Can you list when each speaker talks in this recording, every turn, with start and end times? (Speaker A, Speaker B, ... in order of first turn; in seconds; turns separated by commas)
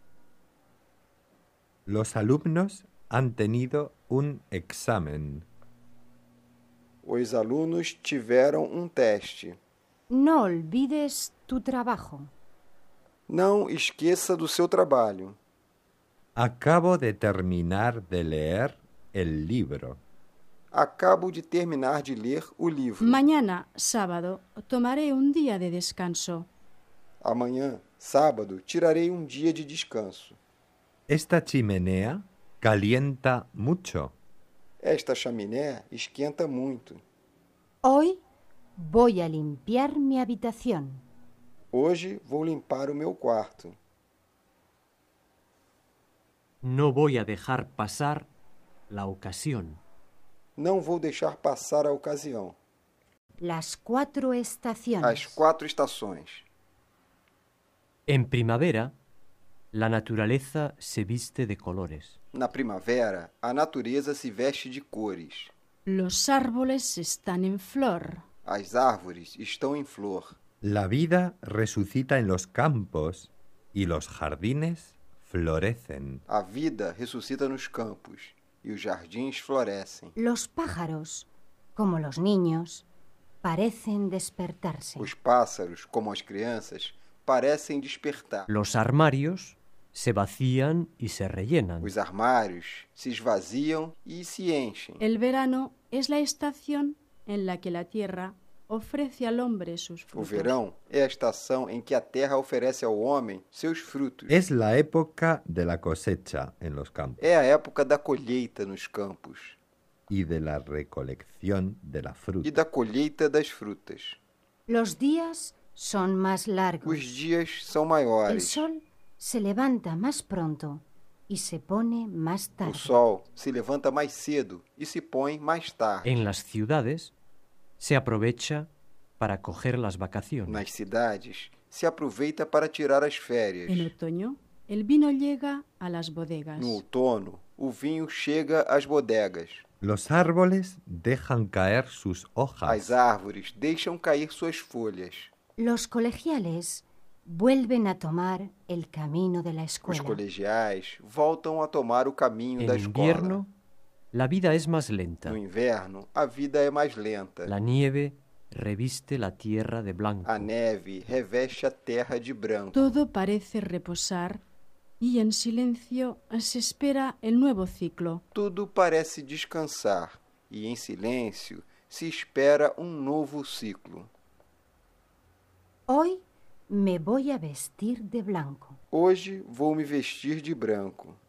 Speaker A: 1.9-5.5, Speaker B: 7.0-9.6, Speaker C: 10.1-12.3, Speaker B: 13.3-15.4, Speaker A: 16.4-20.0, Speaker B: 20.7-23.2, Speaker D: 23.0-26.5, Speaker B: 27.2-30.4, Speaker A: 31.1-34.1, Speaker B: 34.8-37.0, Speaker C: 37.8-38.2, Speaker C: 38.8-41.0, Speaker B: 41.7-43.8, Speaker E: 46.6-48.3, Speaker E: 48.9-49.8, Speaker B: 50.6-52.5, Speaker C: 53.4-55.4, Speaker B: 55.0-56.5, Speaker E: 58.1-58.9, Speaker E: 59.7-62.1, Speaker B: 62.3-65.5, Speaker D: 65.9-68.2, Speaker B: 68.5-70.3, Speaker A: 70.6-76.2, Speaker B: 76.3-80.2, Speaker C: 80.2-82.8, Speaker C: 83.4-85.1, Speaker B: 85.0-88.5, Speaker E: 88.5-91.9, Speaker B: 91.8-95.0, Speaker D: 95.0-100.5, Speaker B: 100.1-104.3, Speaker A: 104.3-107.2, Speaker B: 107.2-109.6, Speaker A: 110.1-112.6, Speaker B: 112.4-114.2, Speaker C: 114.7-117.1, Speaker B: 116.8-118.6, Speaker C: 118.3-122.9, Speaker B: 122.6-126.3, Speaker E: 126.0-127.1, Speaker E: 127.8-128.7, Speaker E: 129.2-130.6, Speaker B: 130.5-133.9, Speaker D: 133.7-136.8, Speaker B: 136.6-139.7, Speaker A: 139.8-142.9, Speaker B: 142.7-145.3, Speaker C: 145.6-150.2, Speaker B: 149.8-153.4, Speaker E: 152.6-153.5, Speaker E: 154.1-155.4, Speaker B: 155.2-157.5, Speaker E: 157.5-160.5, Speaker B: 160.2-163.0, Speaker D: 162.7-164.4, Speaker D: 165.0-168.2, Speaker B: 168.3-174.1, Speaker C: 175.9-178.8, Speaker B: 178.9-181.2